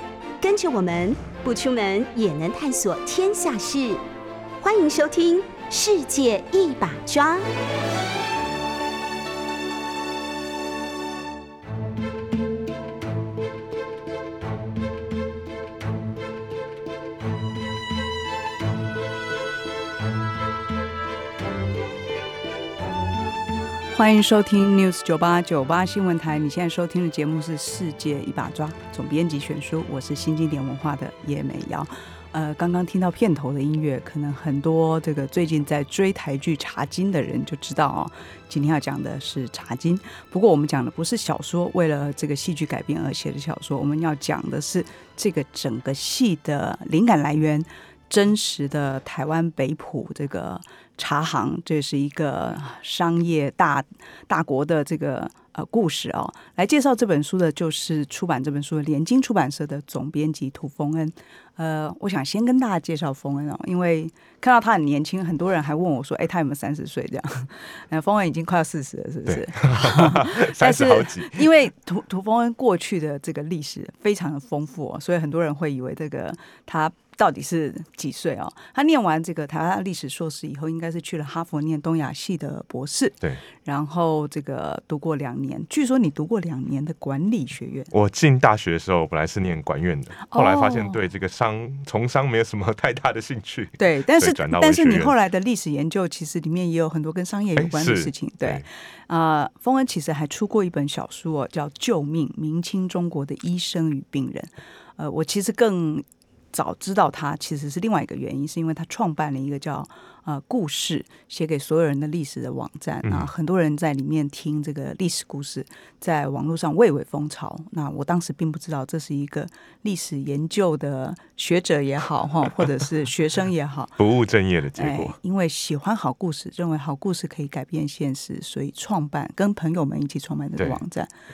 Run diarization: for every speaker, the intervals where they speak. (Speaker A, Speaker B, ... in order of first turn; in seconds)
Speaker A: 0.4-4.0, 4.6-7.5
Speaker B: 23.9-87.9, 90.2-91.0, 93.8-124.0, 124.8-131.1
Speaker C: 69.3-71.5, 87.9-95.1, 97.5-98.6, 113.0-113.3, 124.0-125.2